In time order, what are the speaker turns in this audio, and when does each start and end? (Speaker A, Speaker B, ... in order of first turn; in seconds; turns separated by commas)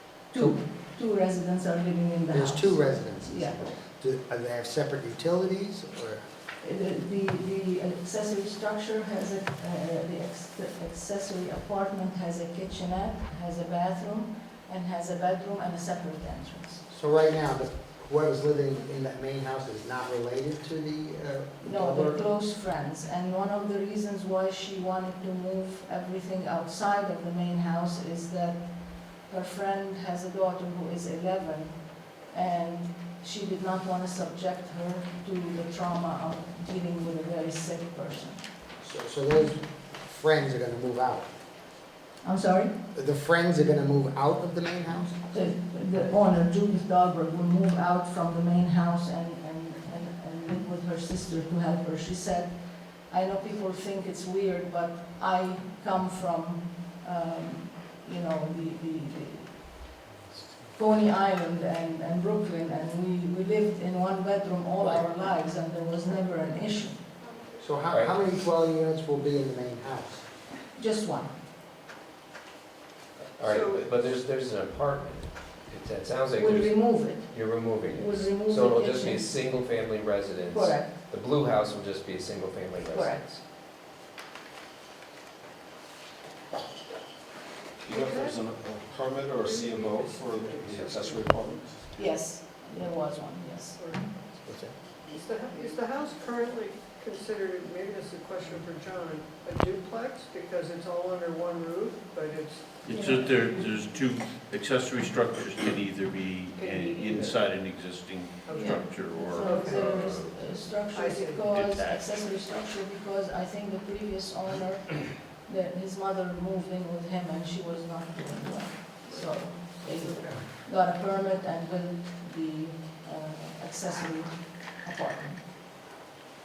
Speaker A: 0.3-3.6, Speaker B: 2.3-6.2, Speaker A: 6.6-16.8, Speaker B: 16.9-22.2, Speaker A: 21.6-28.7, Speaker A: 29.3-31.8, Speaker A: 32.3-38.4, Speaker B: 38.8-41.3, Speaker A: 42.2-42.7, Speaker B: 42.9-45.1, Speaker A: 45.3-52.5, Speaker A: 53.1-59.6, Speaker A: 60.7-67.0, Speaker B: 67.6-70.2, Speaker C: 67.9-68.1, Speaker A: 70.8-71.3, Speaker C: 73.4-83.4, Speaker D: 73.4-73.9, Speaker A: 76.3-79.3, Speaker A: 80.5-80.9, Speaker A: 82.9-83.3, Speaker D: 87.9-88.5, Speaker E: 87.9-91.8, Speaker D: 89.3-91.6, Speaker A: 92.0-93.8, Speaker D: 93.8-94.2, Speaker D: 95.0-103.6, Speaker F: 102.8-110.5, Speaker A: 102.9-103.7, Speaker D: 106.5-107.4, Speaker D: 108.5-108.8, Speaker A: 108.5-125.4, Speaker D: 109.3-110.0, Speaker D: 110.9-111.6, Speaker F: 111.5-112.2, Speaker D: 119.1-120.4